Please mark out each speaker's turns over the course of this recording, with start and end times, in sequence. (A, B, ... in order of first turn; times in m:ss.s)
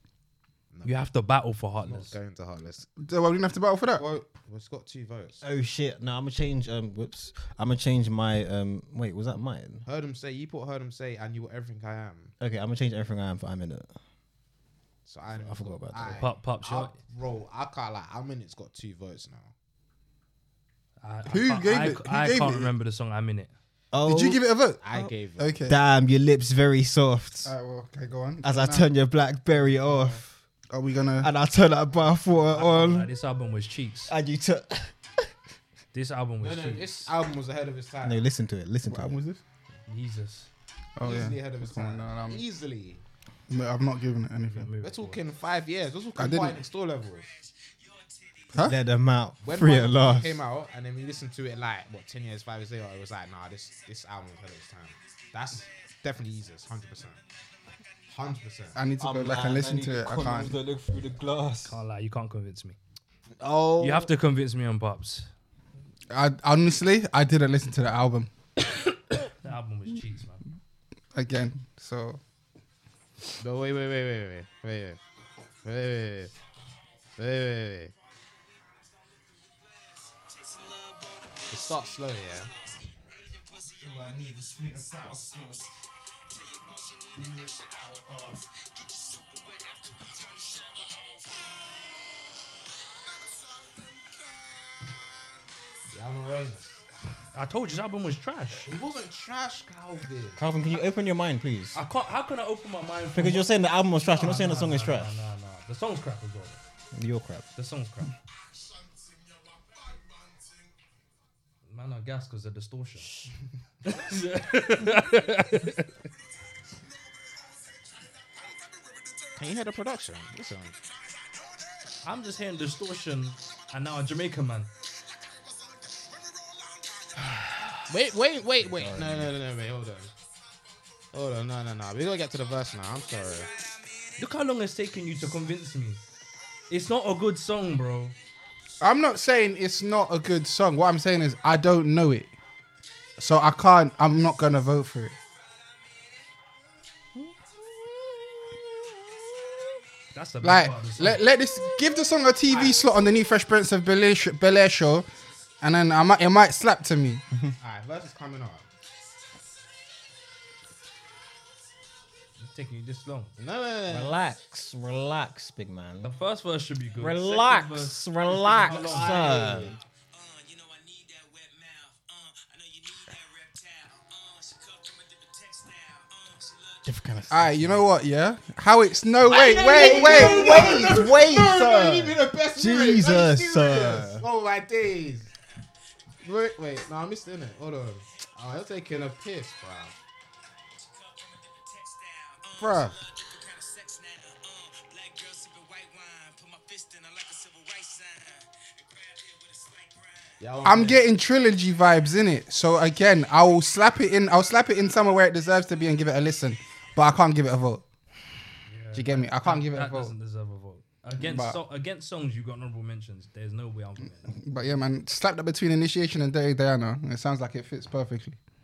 0:00.7-0:01.0 A
0:00.8-0:02.2 B
0:01.8-0:02.9 A
0:03.0-0:04.0 C
0:04.0-0:05.4 A
0:05.4-0:09.8 D
0:09.8-0:12.3 A
0:12.4-0:13.9 D
0:15.0-0:19.5 A
0:15.4-0:16.3 D
0:16.2-0:17.0 B
0:21.0-0:23.5 B
0:21.2-0:22.7 C
0:23.9-0:25.1 D
0:24.0-0:24.8 C
0:24.8-0:25.5 A
0:25.4-0:25.8 C
0:25.6-0:27.5 D
0:27.4-0:28.9 C
0:28.4-0:30.4 D
0:30.7-0:31.3 C
0:31.2-0:33.1 D
0:32.5-0:34.1 B
0:34.1-0:35.3 D
0:35.9-0:37.1 B
0:36.4-0:38.2 A
0:38.0-0:39.4 D
0:38.8-0:39.4 C
0:39.8-0:40.5 B
0:41.0-0:42.4 C
0:41.0-0:43.0 A
0:43.5-0:44.7 C
0:44.4-0:45.2 B
0:44.8-0:47.4 A
0:46.2-0:46.6 C
0:48.5-0:48.8 C
0:48.6-0:50.4 D
0:49.4-0:57.2 A
0:58.1-0:58.8 A
0:58.7-1:00.6 C
0:59.0-1:01.8 D
1:01.6-1:02.8 B
1:03.4-1:04.1 A
1:03.8-1:05.3 B
1:06.1-1:08.3 C
1:09.3-1:10.4 B
1:11.1-1:12.2 C
1:13.4-1:15.0 A
1:15.6-1:16.3 A
1:17.2-1:17.9 A
1:21.5-1:22.5 A
1:35.9-1:36.8 A
1:37.3-1:38.7 B
1:38.6-1:40.4 A
1:40.4-1:41.8 D
1:41.7-1:46.6 B
1:43.1-1:45.1 D
1:46.9-1:47.5 D
1:47.5-1:48.1 B
1:51.6-1:53.2 B
1:53.8-1:55.9 B
1:59.3-2:00.8 A
2:02.0-2:04.7 B
2:07.7-2:10.1 A
2:08.6-2:09.3 D
2:11.1-2:13.6 A
2:14.2-2:16.0 B
2:16.7-2:18.1 B
2:18.8-2:22.3 C
2:23.2-2:25.2 C
2:30.1-2:31.2 B
2:30.4-2:35.1 C
2:35.6-2:37.2 C
2:37.6-2:38.6 A
2:42.4-2:43.4 B
2:43.4-2:44.2 A
2:43.9-2:46.1 D
2:46.0-2:49.5 B
2:47.0-2:49.8 D
2:48.6-2:49.8 A
2:50.5-2:51.9 E
2:52.7-2:54.5 E
2:56.8-2:57.8 D
2:57.3-3:00.9 C
2:59.3-3:05.3 A
2:59.5-3:04.2 D
3:06.2-3:10.0 A
3:12.5-3:13.1 A
3:13.6-3:18.4 E
3:20.4-3:21.1 A
3:20.6-3:27.8 C
3:28.6-3:34.4 B
3:28.9-3:30.1 C
3:31.2-3:31.6 C
3:34.3-3:38.4 C